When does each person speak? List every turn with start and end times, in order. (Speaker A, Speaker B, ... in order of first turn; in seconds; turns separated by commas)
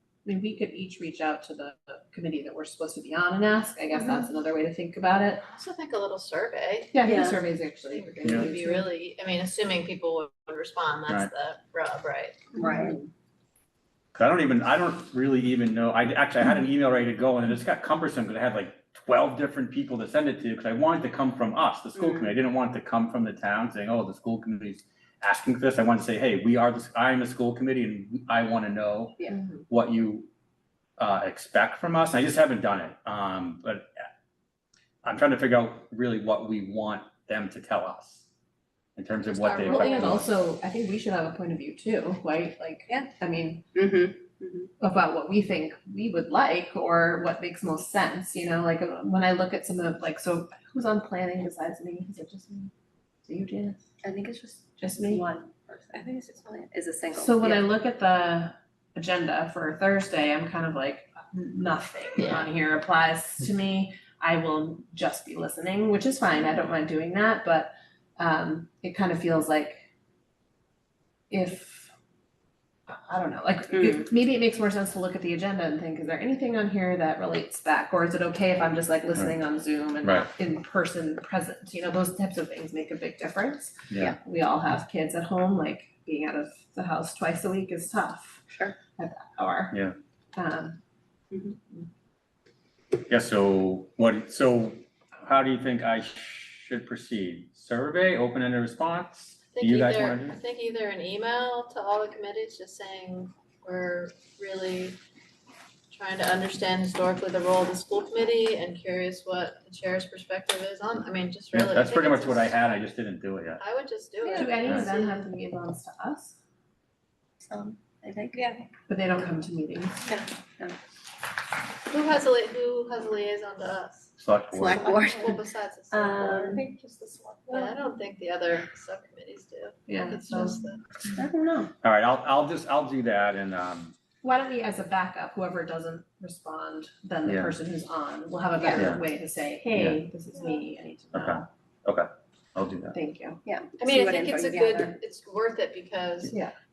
Speaker A: 0.2-5.4, Speaker B: 5.5-12.4, Speaker A: 6.9-8.9, Speaker C: 7.0-7.4, Speaker C: 12.5-13.0, Speaker A: 12.6-13.0, Speaker D: 14.1-29.1, Speaker C: 21.9-22.3, Speaker A: 29.3-29.6, Speaker D: 29.7-30.3, Speaker D: 31.0-34.1, Speaker D: 35.0-38.2, Speaker D: 39.0-40.3, Speaker B: 39.3-40.2, Speaker A: 39.5-43.6, Speaker C: 43.7-44.7, Speaker A: 44.8-52.7, Speaker A: 53.2-53.8, Speaker C: 54.0-57.7, Speaker A: 54.8-55.2, Speaker A: 57.1-69.8, Speaker B: 62.2-62.4, Speaker A: 71.3-71.9, Speaker A: 72.9-88.4, Speaker C: 73.7-74.1, Speaker D: 80.0-80.3, Speaker C: 88.5-88.8, Speaker A: 89.0-89.8, Speaker A: 90.3-90.8, Speaker C: 91.3-91.6, Speaker D: 93.1-100.4, Speaker B: 99.5-105.0, Speaker B: 105.9-112.5, Speaker D: 111.5-113.6, Speaker B: 113.6-115.2, Speaker C: 114.2-114.6, Speaker A: 114.3-116.3, Speaker C: 117.5-118.7, Speaker A: 118.9-120.0, Speaker C: 120.0-120.8, Speaker B: 121.9-126.7, Speaker D: 124.2-124.8, Speaker C: 124.5-127.7, Speaker B: 127.5-130.8, Speaker A: 129.9-130.6, Speaker C: 131.1-131.7, Speaker D: 131.8-133.9, Speaker A: 134.2-141.5, Speaker D: 137.2-137.5, Speaker D: 138.7-139.0, Speaker D: 139.7-140.0, Speaker D: 141.1-142.9, Speaker A: 142.9-143.4, Speaker C: 143.4-145.0, Speaker B: 143.8-146.3, Speaker A: 146.3-146.5